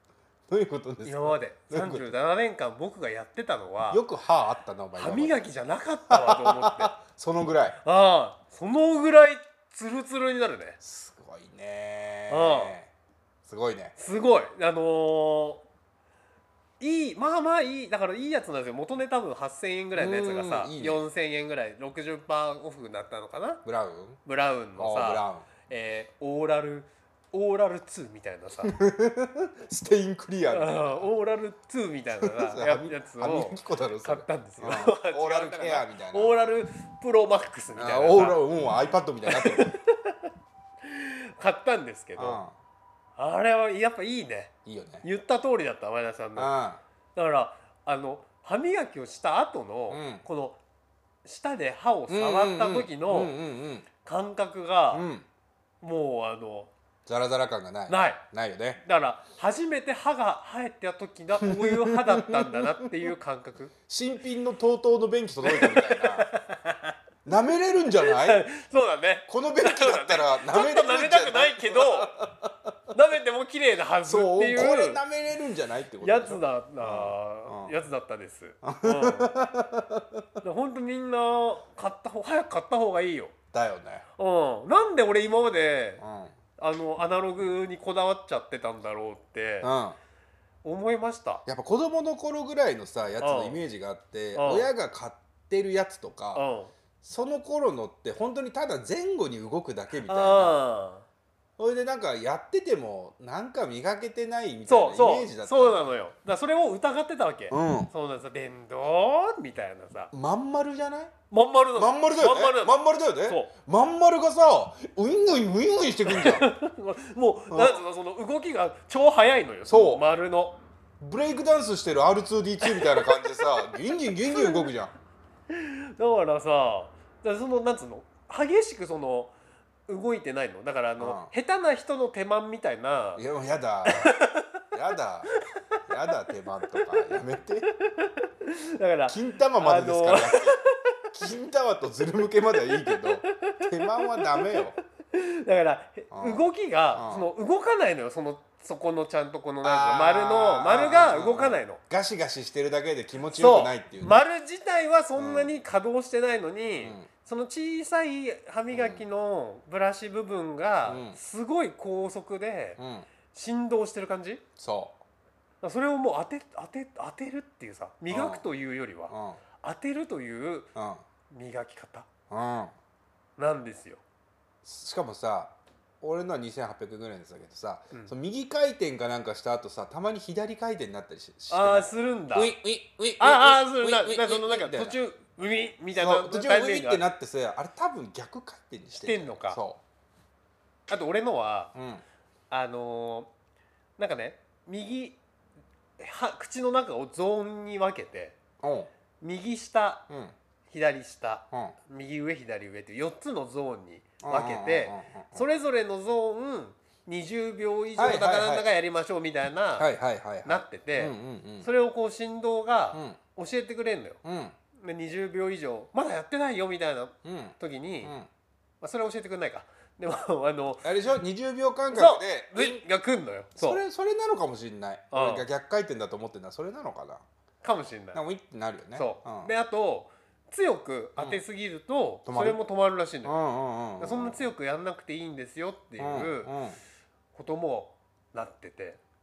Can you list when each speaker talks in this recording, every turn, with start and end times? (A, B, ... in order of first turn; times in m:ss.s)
0:00.5-0:02.1 A
0:01.0-0:04.0 B
0:03.9-0:05.4 A
0:05.0-0:06.9 B
0:06.1-0:07.8 A
0:07.8-0:10.8 B
0:10.8-0:12.9 A
0:12.3-0:12.7 B
0:13.4-0:14.0 A
0:14.0-0:15.6 B
0:16.8-0:23.6 B
0:20.0-0:21.0 A
0:23.6-0:24.2 A
0:24.2-0:28.7 B
0:24.8-0:25.5 A
0:28.6-0:31.1 A
0:30.5-0:38.4 B
0:32.2-0:36.3 A
0:37.7-0:39.8 A
0:39.2-0:40.3 B
0:40.8-0:42.4 B
0:42.2-0:42.5 A
0:43.2-0:44.5 B
0:44.6-0:45.1 A
0:45.0-0:46.5 B
0:46.4-0:46.8 A
0:47.1-0:50.6 B
0:49.9-0:50.2 A
0:51.2-0:53.4 B
0:52.1-0:53.9 A
0:54.0-0:55.1 B
0:54.9-0:55.2 A
0:55.8-0:56.7 B
0:57.1-0:58.8 A
0:57.9-0:58.2 B
0:58.8-1:03.7 B
1:01.4-1:02.9 A
1:03.9-1:06.3 A
1:05.4-1:07.0 B
1:07.2-1:08.5 A
1:08.0-1:12.1 B
1:09.3-1:12.7 A
1:12.9-1:15.0 B
1:14.0-1:17.7 A
1:16.0-1:19.3 B
1:18.6-1:20.2 A
1:20.4-1:23.3 B
1:23.5-1:24.0 A
1:24.2-1:26.0 B
1:26.0-1:26.3 A
1:26.6-1:29.7 B
1:29.6-1:30.0 A
1:30.6-1:31.4 B
1:31.4-1:36.4 A
1:33.2-1:33.6 B
1:34.4-1:34.7 B
1:36.3-1:36.7 B
1:37.0-1:40.6 A
1:39.9-1:41.0 B
1:41.6-1:45.9 A
1:44.7-1:50.1 B
1:47.5-1:47.9 A
1:50.1-1:51.1 A
1:51.3-1:53.5 B
1:51.7-1:56.5 A
1:56.1-2:00.6 B
1:57.5-1:57.8 A
1:59.7-2:00.0 A
2:01.0-2:04.9 A
2:02.6-2:03.0 B
2:04.0-2:04.6 B
2:05.5-2:09.3 B
2:09.9-2:13.2 B
2:11.0-2:11.3 A
2:13.2-2:14.2 A
2:13.8-2:14.4 B
2:14.7-2:17.7 A
2:17.8-2:21.0 B
2:19.1-2:24.8 A
2:22.7-2:31.8 B
2:26.1-2:27.3 A
2:29.6-2:34.2 A
2:33.3-2:42.8 B
2:35.1-2:35.5 A
2:36.8-2:37.1 A
2:38.7-2:39.0 A
2:40.8-2:41.2 A
2:42.8-2:43.1 A
2:43.3-2:44.4 B
2:44.6-2:45.0 A
2:45.6-2:50.7 B
2:48.1-2:48.4 A
2:49.1-2:49.4 A
2:50.7-2:51.0 A
2:51.3-2:52.1 B
2:52.3-2:52.7 A
2:53.4-2:54.0 B
2:54.6-3:05.0 A
3:01.5-3:02.5 B
3:03.2-3:07.1 B
3:05.9-3:09.8 A
3:08.9-3:09.6 B
3:10.9-3:11.7 B
3:11.7-3:12.0 A
3:12.5-3:13.3 B
3:14.0-3:15.2 B
3:16.0-3:18.4 B
3:18.6-3:18.9 A
3:19.2-3:20.0 B
3:20.1-3:20.3 A
3:20.7-3:29.9 B
3:24.2-3:25.4 A
3:28.0-3:28.7 A
3:29.8-3:31.7 A
3:30.4-3:34.2 B
3:32.9-3:33.2 A
3:34.2-3:34.5 A
3:34.7-3:38.1 B
3:37.2-3:38.3 A
3:38.8-3:40.9 B
3:40.8-3:42.8 A
3:41.9-3:43.8 B
3:43.6-3:47.2 A
3:45.1-3:45.5 B
3:47.6-3:48.2 B
3:48.1-3:49.5 A
3:49.0-3:53.4 B
3:52.2-3:52.6 A
3:53.2-3:54.5 A
3:54.0-3:56.5 B
3:56.0-3:56.8 A
3:57.3-3:59.0 B